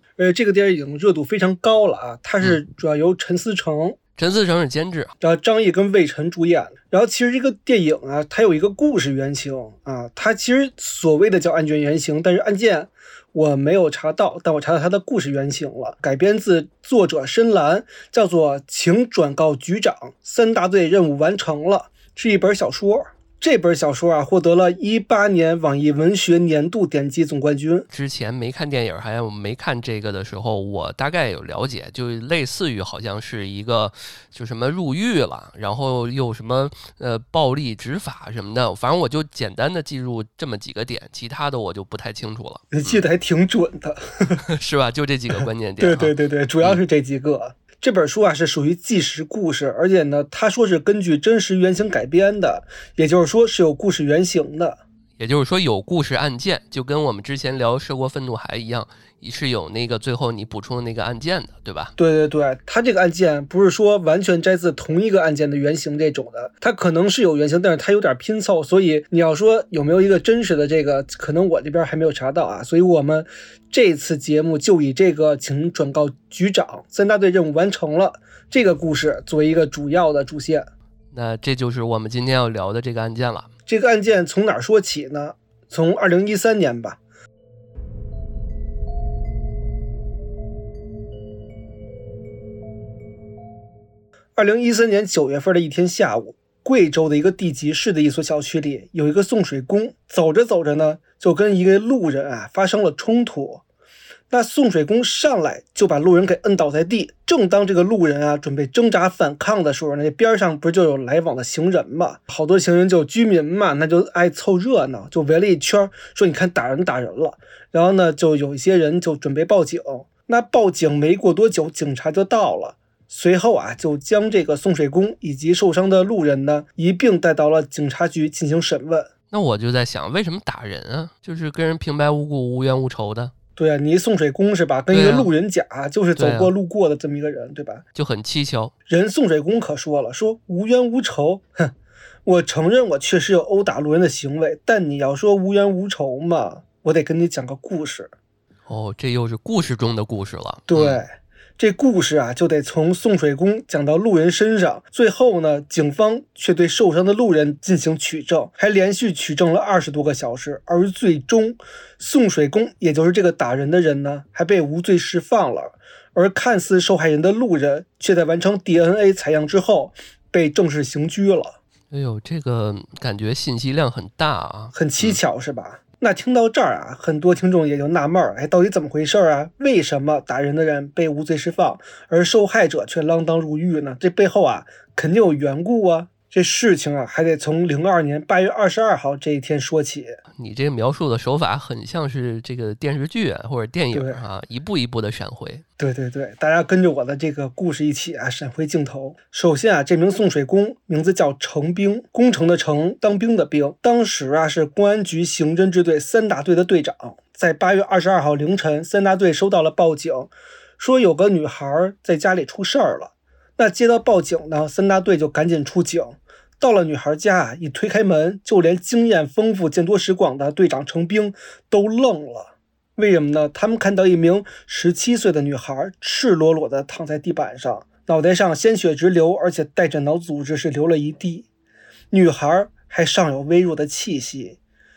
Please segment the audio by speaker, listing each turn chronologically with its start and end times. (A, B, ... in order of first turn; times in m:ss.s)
0:00.2-0:04.0 A
0:04.2-0:05.1 B
0:05.2-0:27.9 A
0:27.9-0:43.0 B
0:42.7-0:44.4 A
0:44.5-0:46.8 B
0:45.8-0:54.8 A
0:55.2-1:01.9 B
1:02.0-1:20.7 A
1:21.1-1:23.5 B
1:23.7-1:27.0 A
1:34.4-1:43.6 A
1:44.3-2:09.1 A
2:09.3-2:13.3 B
2:13.6-2:17.8 A
2:14.9-2:15.3 B
2:16.2-2:16.5 B
2:17.9-2:18.7 B
2:18.9-2:21.7 A
2:22.2-2:28.1 A
2:28.6-2:31.0 B
2:30.7-2:51.6 A
2:51.9-2:55.2 B
2:54.7-3:10.2 A
3:10.3-3:15.6 B
3:13.9-3:14.2 A
3:15.8-3:51.4 A
3:52.1-3:54.6 A